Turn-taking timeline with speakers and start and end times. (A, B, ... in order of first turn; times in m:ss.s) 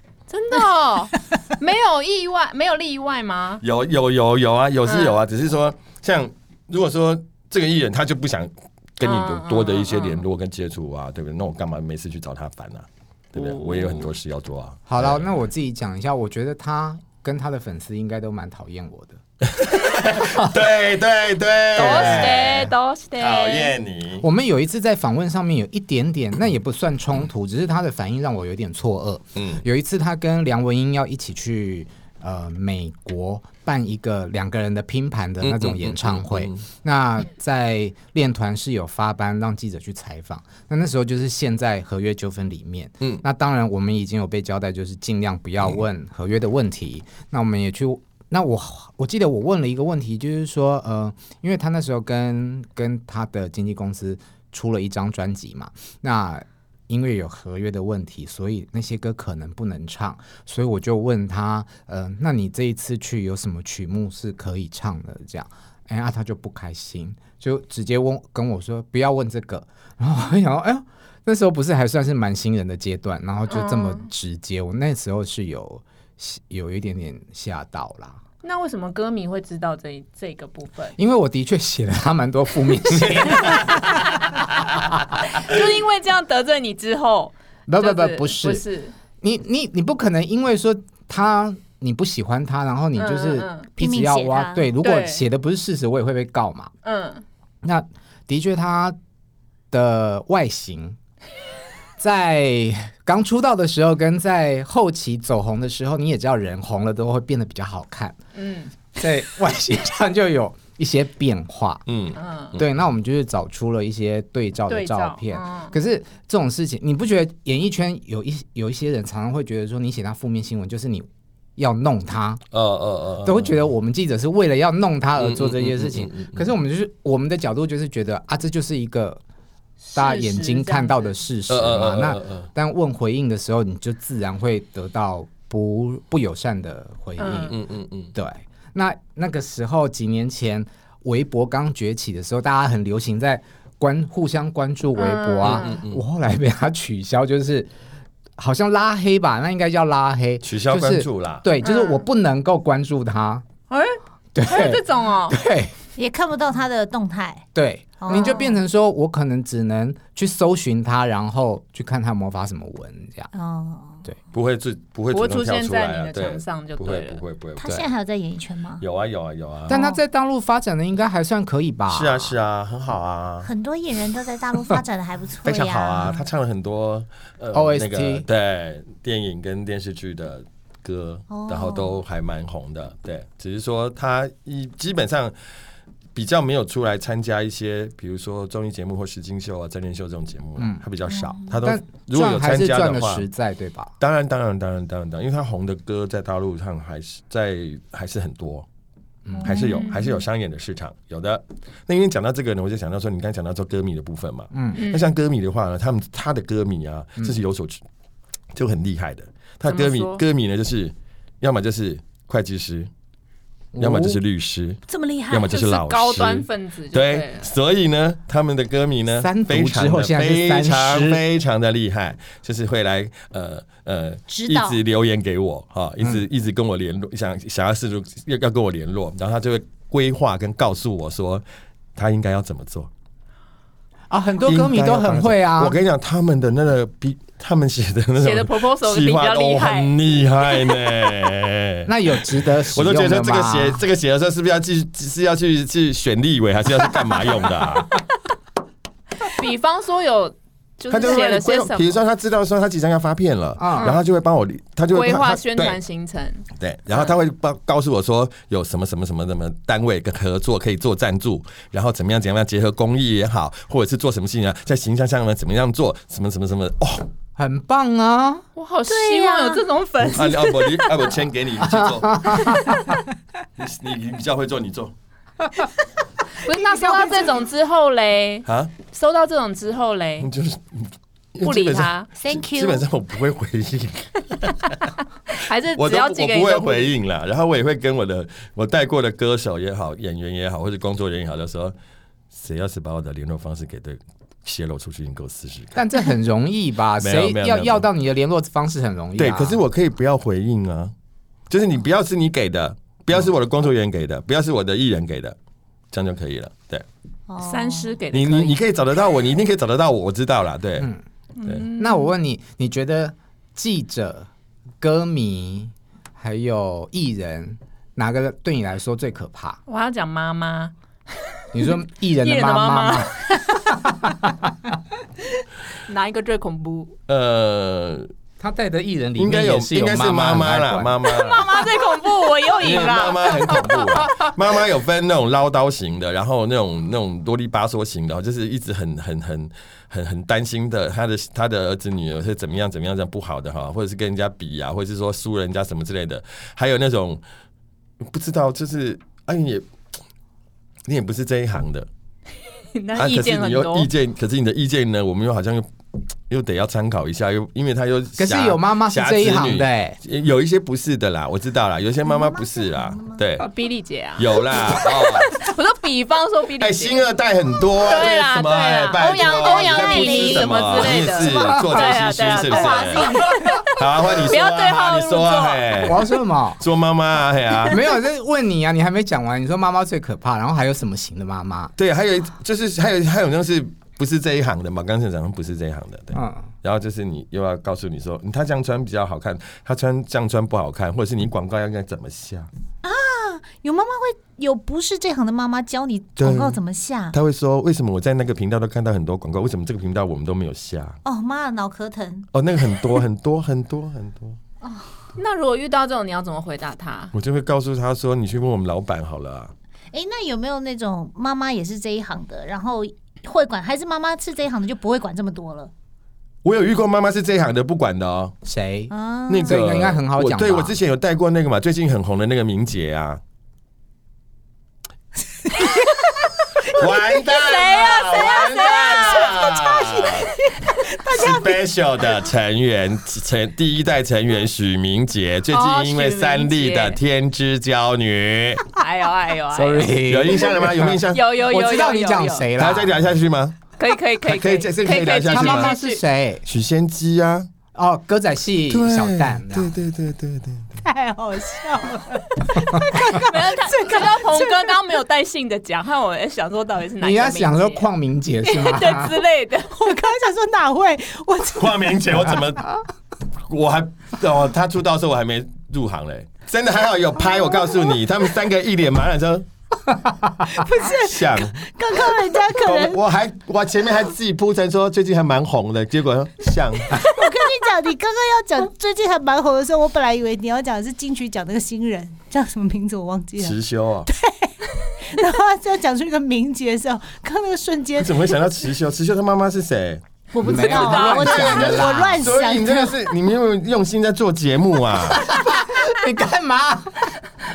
0:00.3-0:03.6 A
0:03.6-0:15.3 B
0:04.8-0:05.2 A
0:09.0-0:10.2 A
0:13.3-0:14.1 A
0:14.9-0:19.2 C
0:19.5-0:24.2 B
0:20.1-0:20.5 C
0:21.7-0:23.7 A
0:21.8-0:22.4 C
0:24.2-1:18.2 C
0:29.4-0:29.6 B
0:35.4-0:36.6 B
1:13.5-1:14.0 A
1:18.4-1:21.0 A
1:21.0-1:24.2 C
1:23.0-1:23.9 B
1:25.3-1:28.9 A
1:27.7-1:28.6 C
1:29.2-1:36.7 C
1:33.0-1:33.7 A
1:33.8-1:34.7 D
1:34.8-1:35.2 A
1:36.8-1:37.2 A
1:37.6-1:39.0 C
1:39.7-1:41.0 C
1:42.0-1:48.2 C
1:48.3-1:48.7 A
1:48.9-1:51.8 C
1:51.9-1:52.7 B
1:52.2-1:52.5 A
1:52.6-2:02.4 C
1:54.7-1:55.7 A
2:02.5-2:03.6 B
2:03.2-2:09.2 C
2:05.2-2:06.5 B
2:09.8-2:11.1 A
2:09.9-2:17.6 C
2:11.5-2:12.5 B
2:17.2-2:17.5 A
2:17.5-2:18.1 B
2:18.1-2:27.7 C
2:25.0-2:25.8 A
2:25.4-2:26.0 B
2:28.4-2:33.4 C
2:30.4-2:31.4 B
2:31.6-2:32.0 A
2:33.7-2:35.4 A
2:34.3-2:35.7 C
2:36.0-2:37.4 D
2:37.5-2:43.3 C
2:38.0-2:38.6 D
2:43.3-2:44.0 D
2:44.3-2:47.8 B
2:45.1-2:47.2 A
2:47.6-2:48.8 D
2:48.8-2:49.8 B
2:49.7-2:52.4 C
2:49.7-2:50.0 D
2:51.9-2:53.5 B
2:53.4-2:56.2 D
2:55.4-3:05.3 B
2:57.5-2:58.3 C
3:01.3-3:02.0 D
3:06.1-3:13.2 B
3:10.6-3:10.8 C
3:11.1-3:11.5 D
3:11.6-3:13.9 C
3:14.0-3:18.6 B
3:19.2-3:19.6 C
3:19.4-3:20.1 D
3:19.4-3:27.8 B
3:19.6-3:20.0 A
3:24.5-3:24.8 C
3:24.8-3:25.1 A
3:28.5-3:32.9 B
3:29.6-3:30.2 A
3:33.7-3:34.2 C
3:33.8-3:51.4 B
3:34.9-3:35.5 D
3:35.4-3:37.5 A
3:39.1-3:41.2 C
3:44.3-3:44.8 D
3:52.0-3:52.9 B
3:54.1-3:55.8 C
3:54.4-4:08.0 B
3:58.2-3:59.9 A
4:01.8-4:03.8 C
4:09.2-4:11.9 A
4:10.9-4:15.8 B
4:13.6-4:13.9 C
4:13.8-4:14.0 A
4:14.9-4:16.4 A
4:16.6-4:27.1 B
4:27.4-4:28.4 C
4:28.6-4:30.9 A
4:28.9-4:29.6 D
4:30.1-4:32.6 B
4:31.6-4:33.0 C
4:33.6-4:34.9 B
4:36.4-4:40.3 A
4:36.5-4:37.4 D
4:38.4-4:38.7 B
4:40.2-4:44.8 B
4:41.4-4:42.1 A
4:42.2-4:42.8 D
4:45.3-4:46.9 A
4:45.8-4:51.7 B
4:52.3-4:55.8 B
4:55.7-4:59.6 C
4:57.0-4:57.8 B
4:59.2-5:00.9 B
5:01.5-5:05.4 B
5:05.9-5:06.8 B
5:07.3-5:08.0 D
5:07.4-5:08.6 A
5:08.1-5:10.9 B
5:11.4-5:12.1 A
5:11.8-5:14.3 C
5:14.8-5:19.6 C
5:19.7-5:20.7 A
5:21.5-5:23.7 A
5:21.5-5:24.8 C
5:25.8-5:27.0 A
5:27.1-5:28.1 B
5:28.4-5:31.0 C
5:29.2-5:31.6 B
5:31.0-5:34.1 A
5:32.6-5:47.2 B
5:48.1-5:49.6 B
5:50.8-5:51.9 B
5:52.7-5:53.9 A
5:53.0-5:55.7 B
5:56.3-6:03.5 B
5:58.2-6:00.0 C
6:02.1-6:03.2 D
6:03.4-6:07.0 A
6:04.2-6:05.4 B
6:06.6-6:17.8 B
6:07.8-6:16.0 A
6:09.0-6:11.2 D
6:12.4-6:13.4 D
6:15.8-6:16.6 C
6:17.7-6:21.7 C
6:21.8-6:32.5 B
6:26.1-6:26.4 C
6:32.8-6:37.2 D
6:36.2-6:36.6 B
6:37.1-6:41.0 B
6:41.0-6:42.3 D
6:42.3-6:44.4 B
6:45.2-6:47.1 A
6:47.1-6:49.5 B
6:49.9-6:55.7 D
6:56.4-6:58.4 B
6:58.4-6:58.9 C
6:58.9-6:59.6 D
6:59.3-7:03.2 B
6:59.4-7:00.8 C
7:06.6-7:10.3 B
7:07.2-7:09.5 A
7:08.5-7:11.6 D
7:11.0-7:18.7 B
7:15.5-7:17.0 A
7:18.7-7:20.0 A
7:19.5-7:23.0 C
7:20.0-7:21.2 B
7:21.1-7:22.5 A
7:22.6-7:23.6 B
7:23.8-7:26.0 A
7:24.2-7:25.7 B
7:25.3-7:26.4 C
7:26.4-7:27.5 B
7:27.7-7:29.7 C
7:28.7-7:30.6 B
7:30.8-7:34.8 D
7:33.1-7:37.8 A
7:37.0-7:39.2 C
7:38.4-7:39.9 A
7:39.7-7:42.0 D
7:41.6-7:42.8 B
7:43.5-7:49.5 B
7:50.4-7:53.0 D
7:50.8-7:51.6 B
7:52.6-7:57.1 B
7:56.9-8:08.4 D
8:03.4-8:04.1 B
8:08.0-8:15.3 B
8:10.3-8:12.9 D
8:10.4-8:12.0 C
8:10.7-8:11.8 A
8:15.1-8:17.1 C